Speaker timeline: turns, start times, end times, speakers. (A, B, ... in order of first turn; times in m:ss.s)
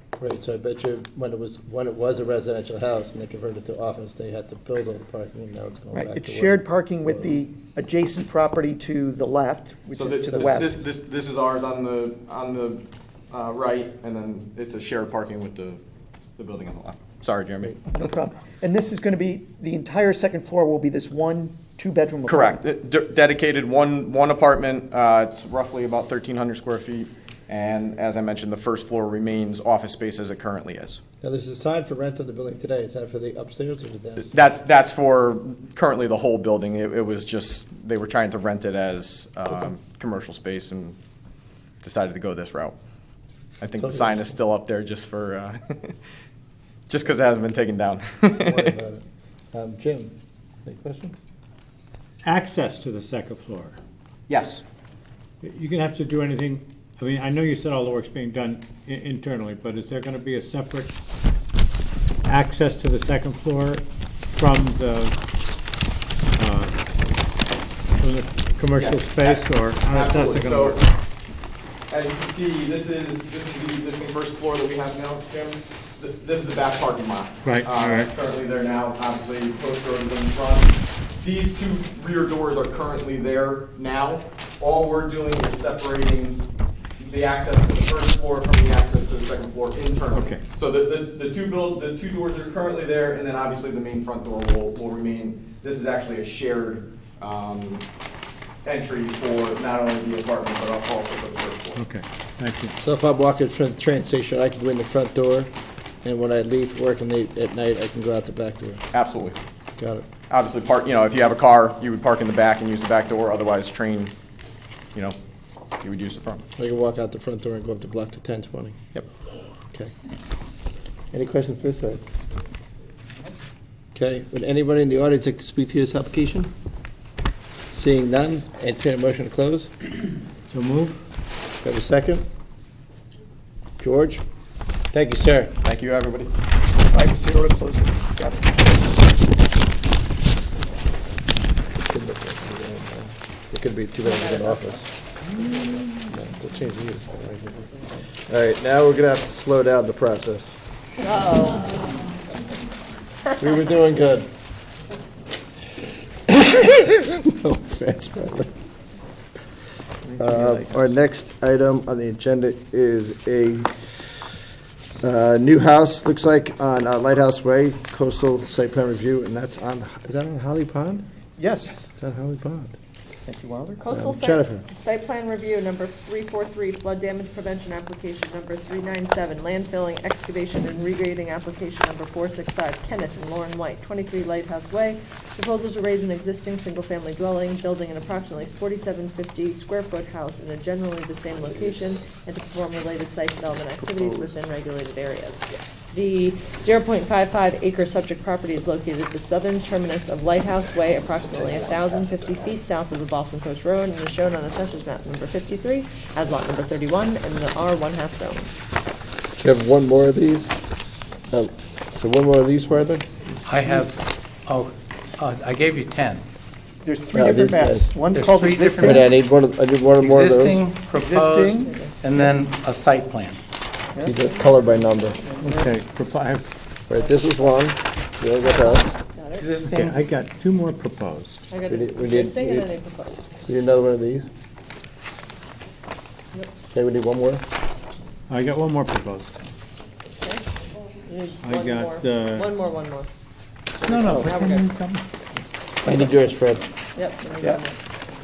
0:00.2-0:07.4 A
0:05.9-0:10.8 B
0:09.9-0:15.8 C
0:16.4-0:17.8 C
0:17.6-0:22.6 B
0:22.3-0:31.0 C
0:31.2-0:34.5 A
0:34.2-0:41.0 C
0:41.8-0:42.8 C
0:43.6-0:46.0 C
0:43.8-0:44.3 A
0:46.9-0:48.8 C
0:48.3-0:50.1 A
0:50.6-0:51.2 A
0:52.2-0:53.8 D
0:54.3-0:54.6 C
0:55.4-1:00.9 D
1:02.3-1:05.2 D
1:06.4-1:06.8 D
1:08.0-1:10.8 D
1:08.7-1:10.9 C
1:11.9-1:26.5 C
1:17.4-1:18.1 D
1:27.0-1:37.8 C
1:30.1-1:30.4 D
1:38.6-1:41.8 C
1:41.8-1:42.8 D
1:42.8-1:45.5 A
1:46.0-1:48.8 A
1:48.9-1:49.4 C
1:49.8-1:50.1 A
1:50.3-1:54.1 C
1:55.8-1:56.4 C
1:56.6-1:58.8 A
2:01.1-2:02.0 A
2:04.0-2:06.5 A
2:07.7-2:09.7 A
2:10.4-2:11.1 D
2:11.6-2:12.2 A
2:13.8-2:14.2 A
2:14.9-2:15.5 A
2:15.6-2:16.3 C
2:16.9-2:19.1 B
2:21.8-2:24.9 A
2:24.0-2:24.8 E
2:25.4-2:25.8 E
2:25.8-2:27.8 A
2:28.3-2:30.6 A
2:31.0-2:31.8 E
2:33.4-2:34.3 A
2:36.3-2:38.5 A
2:40.0-2:41.0 B
2:40.2-2:43.7 A
2:45.0-2:51.0 A
2:51.4-2:51.9 B
2:51.9-2:52.8 A
2:53.3-2:53.8 B
2:53.8-3:28.5 E
2:53.9-2:54.6 A
3:14.0-3:14.3 B
3:21.7-3:22.4 C
3:29.4-3:30.6 A
3:31.3-3:33.1 A
3:33.5-3:36.2 F
3:36.8-3:39.1 B
3:37.1-3:38.0 A
3:38.1-3:39.1 F
3:38.8-3:40.6 A
3:40.0-3:43.4 F
3:40.9-3:41.7 B
3:41.6-3:42.3 E
3:44.0-3:45.3 A
3:44.2-3:45.7 E
3:45.4-3:46.5 D
3:46.9-3:48.9 A
3:46.9-3:47.5 E
3:48.4-3:49.5 E
3:49.3-3:50.0 F
3:49.6-3:51.4 D
3:51.5-3:53.4 E
3:51.7-3:52.7 A
3:53.5-3:54.3 A
3:56.7-3:57.4 A
3:58.3-3:59.4 D
4:00.2-4:00.4 E
4:01.0-4:03.1 E
4:01.4-4:02.5 D
4:03.8-4:05.1 D
4:03.8-4:04.7 E
4:03.9-4:04.3 B
4:05.8-4:06.7 A
4:07.0-4:07.8 E